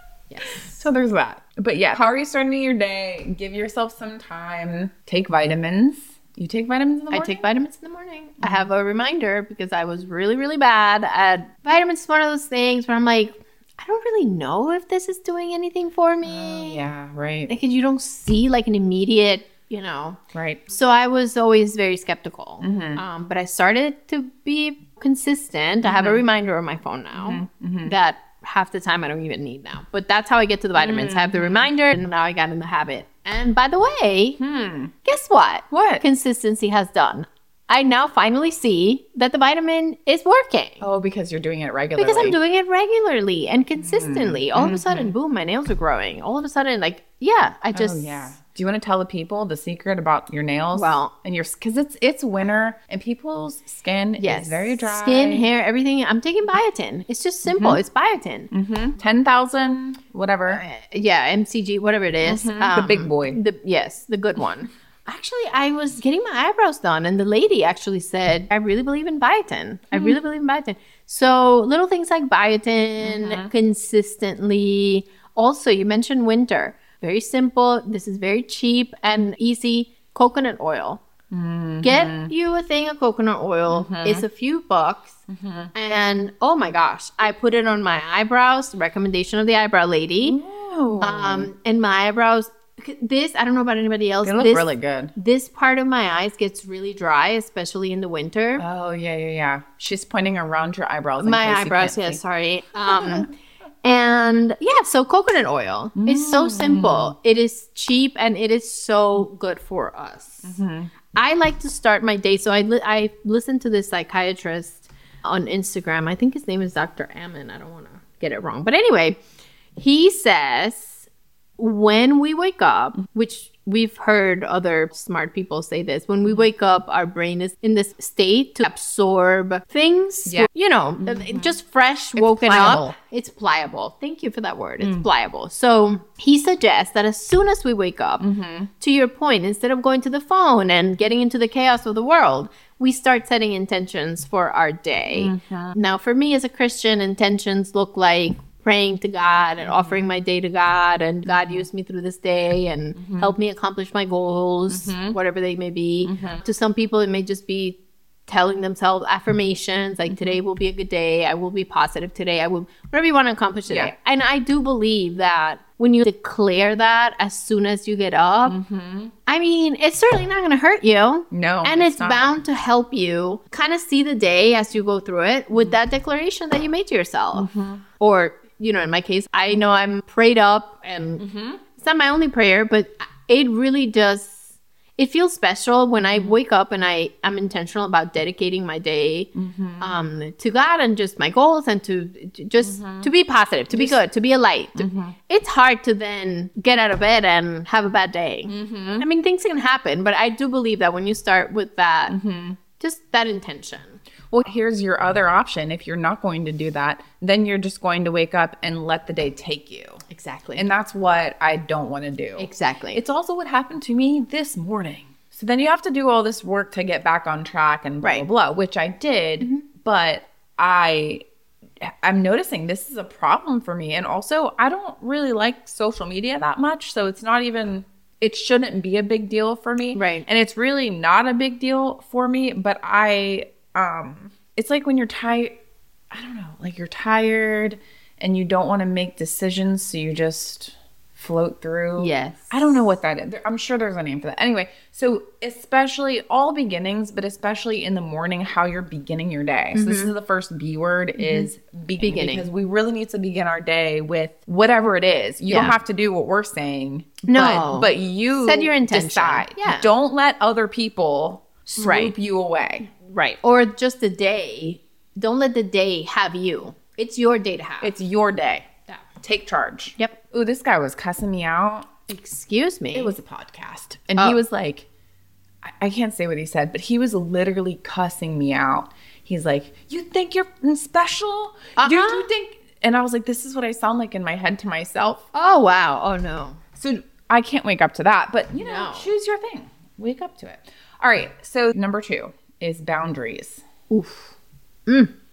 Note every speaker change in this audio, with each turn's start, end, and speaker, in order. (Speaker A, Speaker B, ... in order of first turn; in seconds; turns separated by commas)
Speaker A: 0.3-0.8, Speaker B: 0.5-7.4, Speaker A: 7.1-16.8, Speaker B: 8.4-8.7, Speaker B: 16.2-17.5, Speaker A: 17.5-34.4, Speaker B: 20.3-20.6, Speaker B: 22.6-23.0, Speaker B: 25.8-26.2, Speaker B: 27.1-27.9, Speaker B: 30.7-31.7, Speaker B: 34.4-34.9, Speaker A: 35.0-40.9, Speaker B: 35.7-36.0, Speaker B: 40.8-42.4, Speaker A: 42.0-48.3, Speaker B: 43.8-45.1, Speaker B: 47.7-55.5, Speaker A: 50.7-51.1, Speaker A: 54.2-58.5, Speaker B: 57.5-57.8, Speaker B: 58.5-60.6, Speaker A: 60.5-81.0, Speaker B: 62.2-63.4, Speaker B: 69.9-70.2, Speaker B: 73.0-73.5, Speaker B: 81.3-82.3, Speaker A: 81.8-90.4, Speaker B: 83.7-84.2, Speaker B: 85.3-85.7, Speaker B: 90.2-91.5, Speaker A: 91.0-98.6, Speaker B: 94.2-95.1, Speaker B: 98.6-102.2, Speaker A: 101.2-103.3, Speaker B: 102.9-103.2, Speaker A: 103.8-110.5, Speaker B: 106.0-107.1, Speaker B: 110.4-110.9, Speaker A: 111.1-119.2, Speaker A: 119.8-121.0, Speaker A: 121.6-138.3, Speaker B: 131.0-131.5, Speaker B: 132.2-132.9, Speaker B: 134.8-135.1, Speaker B: 138.2-138.7, Speaker A: 138.8-168.6, Speaker B: 145.1-145.8, Speaker B: 149.6-150.0, Speaker B: 151.3-151.6, Speaker B: 153.0-153.3, Speaker B: 154.7-155.2, Speaker B: 156.0-156.4, Speaker B: 160.1-160.4, Speaker B: 168.4-169.1, Speaker A: 169.2-184.4, Speaker B: 171.3-172.3, Speaker B: 177.3-177.8, Speaker B: 181.2-181.6, Speaker A: 185.0-202.2, Speaker B: 186.0-186.4, Speaker B: 189.3-189.9, Speaker B: 192.6-193.1, Speaker B: 193.7-194.0, Speaker B: 194.8-195.2, Speaker B: 198.5-199.1, Speaker B: 202.1-202.6, Speaker A: 202.8-204.0, Speaker B: 204.3-210.0, Speaker A: 210.1-210.7, Speaker B: 210.6-221.2, Speaker A: 212.4-213.0, Speaker B: 221.8-235.6, Speaker A: 229.9-230.2, Speaker B: 236.1-262.9, Speaker A: 242.0-242.7, Speaker A: 249.7-250.1, Speaker A: 251.2-252.5, Speaker A: 255.5-255.7, Speaker A: 257.3-259.9, Speaker A: 261.7-262.1, Speaker A: 262.9-267.9, Speaker B: 267.8-271.9, Speaker A: 272.1-273.1, Speaker B: 272.9-274.9, Speaker B: 275.6-285.3, Speaker A: 281.8-282.3, Speaker A: 285.3-286.6, Speaker B: 286.8-293.6, Speaker A: 288.6-289.1, Speaker A: 293.9-294.3, Speaker A: 294.9-295.1